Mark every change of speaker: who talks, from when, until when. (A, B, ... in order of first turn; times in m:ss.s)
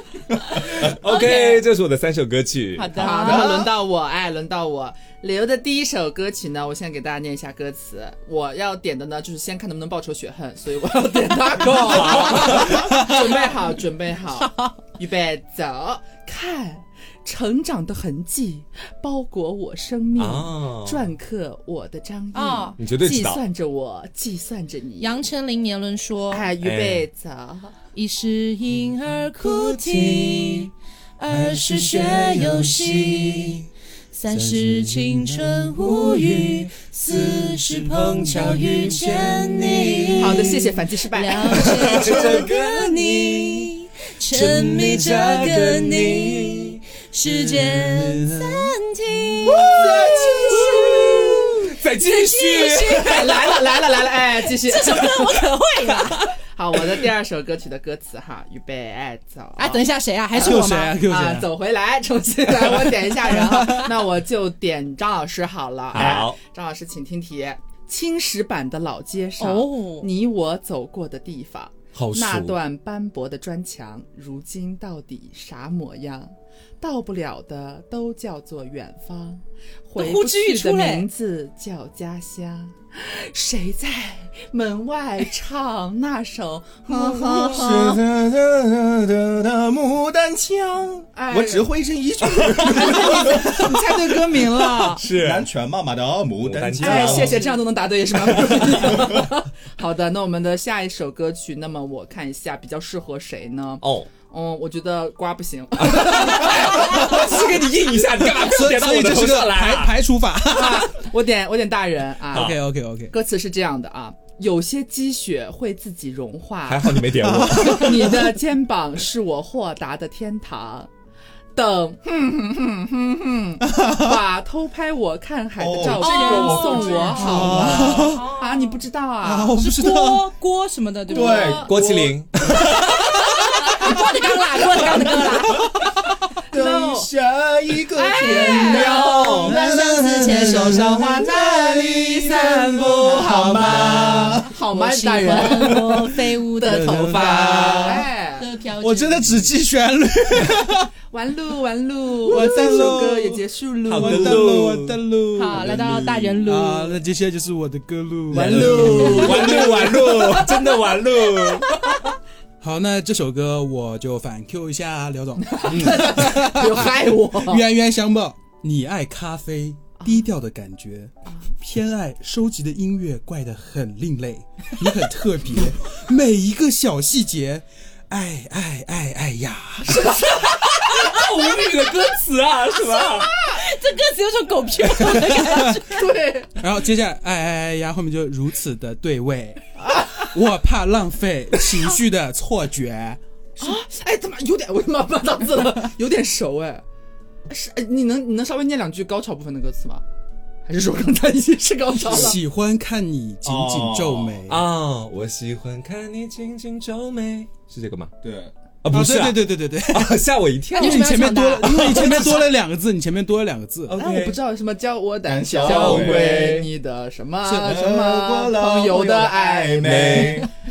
0:00.5-0:03.0 A
0:01.0-0:01.7 B
0:02.8-0:03.5 B
0:02.9-0:25.2 C
0:03.0-0:03.7 D
0:11.6-0:12.9 A
0:12.8-0:13.2 E
0:14.4-0:14.8 B
0:20.2-0:21.1 A
0:22.3-0:22.8 B
0:22.8-0:23.4 A
0:25.0-0:26.5 B
0:26.3-0:27.7 C
0:26.6-0:27.1 A
0:27.9-0:49.7 B
0:29.4-0:30.7 A
0:31.3-0:33.7 A
0:34.3-0:40.6 A
0:40.2-0:41.9 C
0:41.4-0:43.7 A
0:44.3-0:46.8 A
0:47.3-0:48.8 E
0:49.4-0:53.5 A
0:49.5-0:50.8 D
0:50.4-0:56.3 B
0:53.0-0:55.4 C
0:56.5-0:59.8 C
0:59.6-1:01.0 B
1:00.4-1:01.5 E
1:00.4-1:28.0 C
1:02.6-1:03.9 E
1:05.9-1:06.4 A
1:09.4-1:10.1 B
1:11.9-1:12.6 A
1:20.0-1:21.1 B
1:26.9-1:27.6 B
1:27.2-1:34.0 D
1:31.1-1:31.7 C
1:32.4-1:33.4 A
1:32.6-1:35.0 C
1:34.8-1:35.5 A
1:35.0-1:37.5 D
1:36.4-1:37.5 A
1:36.8-1:47.4 C
1:38.2-1:38.9 A
1:38.9-1:39.2 D
1:43.8-1:44.1 A
1:45.8-1:50.0 A
1:48.2-1:51.0 E
1:50.5-1:52.6 C
1:52.3-1:53.1 E
1:53.1-1:57.0 C
1:56.7-1:58.2 A
1:57.0-1:58.3 E
1:57.6-2:00.9 C
2:01.6-2:09.6 C
2:03.6-2:04.2 E
2:05.6-2:07.9 D
2:05.8-2:08.8 B
2:07.2-2:08.3 E
2:09.2-2:10.3 E
2:09.6-2:11.7 B
2:11.1-2:11.8 C
2:11.1-2:12.8 D
2:11.7-2:13.2 A
2:13.0-2:15.8 B
2:16.5-2:17.1 C
2:16.5-2:24.5 D
2:17.9-2:19.6 C
2:18.2-2:20.8 B
2:18.6-2:19.6 A
2:19.4-2:21.1 E
2:20.2-2:26.0 C
2:23.5-2:24.4 A
2:24.6-2:29.5 B
2:26.6-2:28.5 C
2:26.7-2:27.4 E
2:27.0-2:27.9 A
2:27.4-2:28.0 D
2:28.8-2:30.9 E
2:31.1-2:34.5 C
2:32.2-2:35.7 E
2:33.9-2:35.9 A
2:35.4-2:37.0 B
2:35.5-2:36.3 D
2:36.4-2:39.9 E
2:38.3-2:40.8 C
2:38.4-2:41.7 A
2:42.6-3:00.1 E
2:45.4-2:47.7 C
2:50.0-2:50.3 C
2:59.8-3:00.9 C
3:00.1-3:03.3 A
3:02.9-3:06.0 B
3:03.3-3:03.6 C
3:05.0-3:05.8 E
3:05.9-3:06.5 C
3:06.6-3:09.6 E
3:09.8-3:10.3 C
3:10.2-3:13.2 E
3:13.6-3:16.8 C
3:17.5-3:20.0 C
3:20.7-3:22.4 C
3:22.1-3:24.6 E
3:23.4-3:24.4 D
3:24.5-3:28.1 A
3:28.2-3:28.5 D
3:28.8-3:32.5 A
3:28.9-3:30.2 E
3:30.7-3:32.3 B
3:30.8-3:34.0 E
3:33.9-3:34.4 A
3:33.9-3:40.3 C
3:35.2-3:36.7 D
3:35.6-3:36.7 A
3:37.5-3:37.8 E
3:37.6-3:40.5 D
3:39.8-3:40.5 A